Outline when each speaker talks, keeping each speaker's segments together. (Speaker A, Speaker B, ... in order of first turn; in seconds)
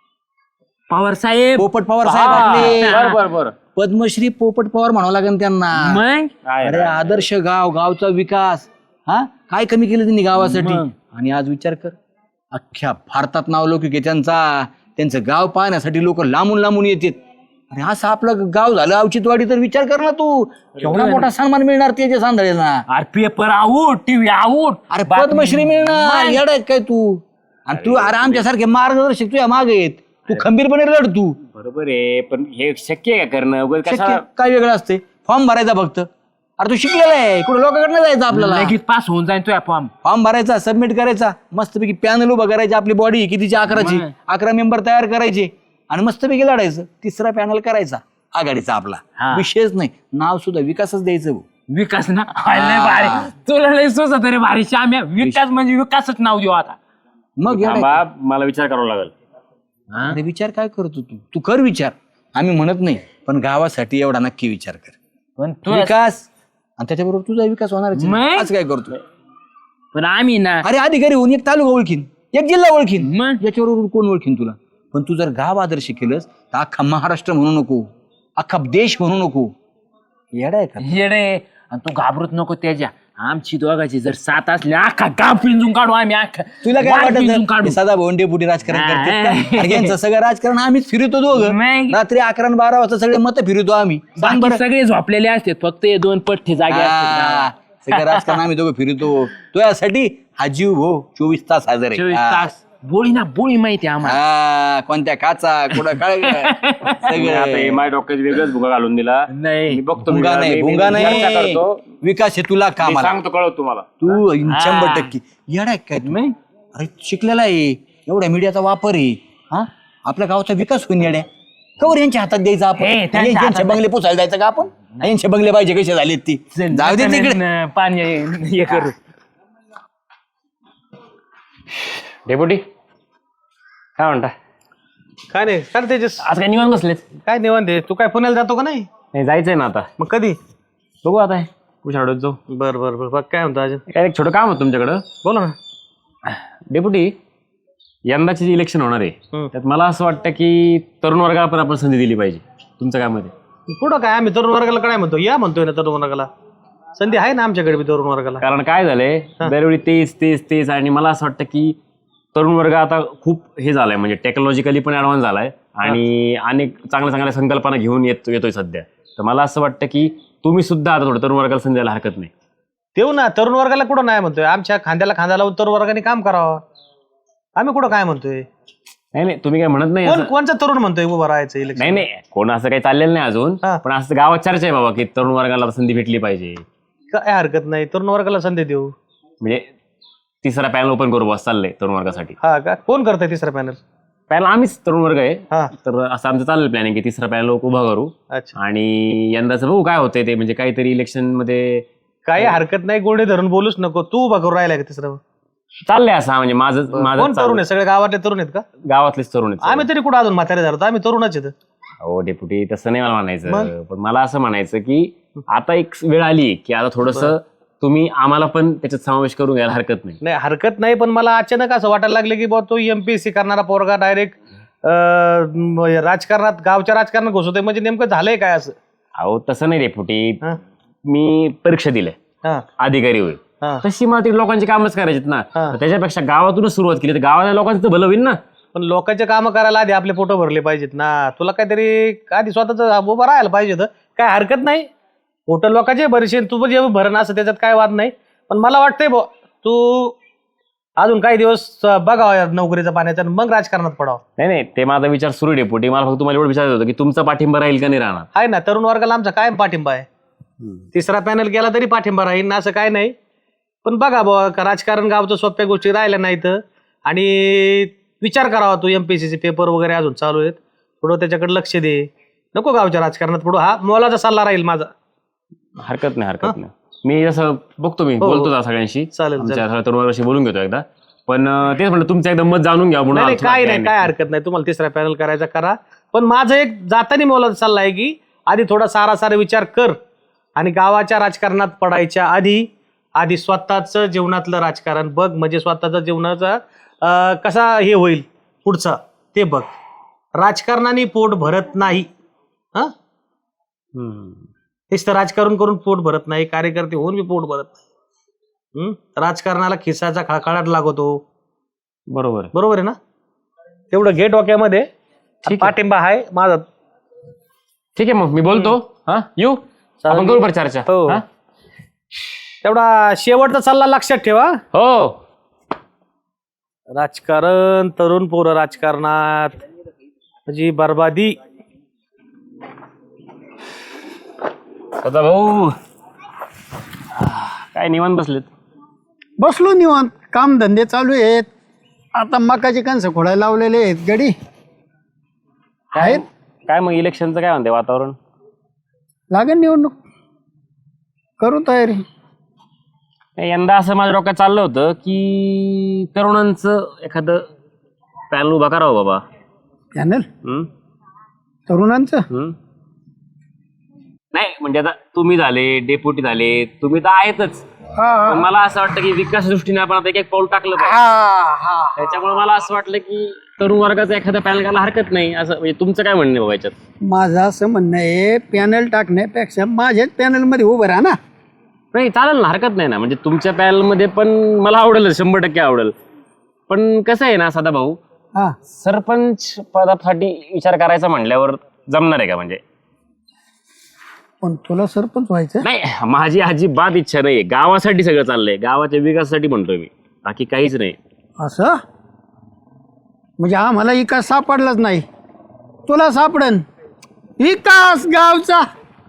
Speaker A: 0.9-3.2, 5.8-6.3, 10.4-10.9, 22.9-26.4, 38.3-39.9, 43.7-44.1, 49.2-49.5, 51.7-56.8, 59.9-60.2, 65.4-65.9, 68.0-68.5, 69.9-70.7, 73.0-73.4, 80.8-87.8, 88.7-89.9, 91.3-92.0, 94.2-98.4, 101.9-104.2, 105.8-107.1, 109.3-109.8, 111.0-111.3, 114.5-115.1, 116.0-116.3, 122.8-123.8, 126.5-128.9
Speaker B: 1.6-3.0, 3.8-6.0, 6.6-11.9, 12.5-17.2, 17.7-22.8, 24.9-31.4, 33.9-38.8, 40.0-51.5, 52.5-53.3, 57.4-58.0, 60.1-65.0, 65.7-66.3, 66.8-69.0, 70.6-79.5, 80.3-80.9, 86.6-94.6, 96.7-102.5, 104.0-107.8, 110.1-113.2, 114.0-116.2, 116.7-121.3, 121.8-127.4
Speaker C: 2.0-3.5, 6.4-7.2, 27.7-28.4, 31.5-34.2, 57.5-59.1, 107.1-111.8, 112.8-113.9, 132.2-132.6, 134.0-134.3, 136.2-137.0, 139.1-139.9, 141.0-142.4, 143.9-145.0, 146.2-147.1, 148.1-153.3, 158.4-161.8, 162.3-172.3, 179.1-180.3, 181.8-186.6, 190.4-192.3, 194.3-201.9, 205.8-207.6, 208.8-209.8, 212.0-220.2, 229.2-230.4, 231.1-232.2, 232.8-238.4, 254.4-258.3, 275.8-284.1, 303.9-304.5, 312.1-312.5, 315.5-315.7, 317.9-321.2, 324.7-325.2, 335.0-335.8, 337.2-338.5, 345.9-348.1, 353.4-357.5, 358.3-359.2, 364.3-367.6, 368.3-371.0, 371.9-376.7, 381.9-385.9, 386.7-388.0, 388.7-392.6, 395.6-401.0
Speaker D: 135.3-136.2, 137.2-138.9, 140.0-140.4, 142.5-143.8, 145.2-145.6, 153.7-156.3, 157.0-158.4, 172.9-176.6, 177.6-178.5, 180.0-182.0, 187.1-188.9, 192.4-193.8, 202.3-205.2, 206.9-208.6, 209.6-211.5, 213.5-213.7, 220.2-228.7, 238.7-244.9, 245.5-250.2, 251.0-254.2, 258.3-260.1, 260.9-263.1, 263.8-274.9, 278.2-278.5, 279.1-279.6, 283.1-290.0, 290.6-299.7, 300.4-302.1, 304.9-307.8, 308.7-311.2, 312.5-313.0, 313.9-314.9, 315.4-316.6, 320.0-321.2, 322.6-324.6, 326.9-329.6, 330.5-331.3
Speaker E: 339.4-341.5, 342.1-344.3, 346.0-346.2, 349.3-349.9, 351.4-352.0, 359.9-360.3, 361.7-362.2, 367.9-368.5, 370.8-372.1, 377.0-381.2, 394.4-395.6, 401.4-401.8, 403.4-405.0, 405.9-406.6, 407.4-408.6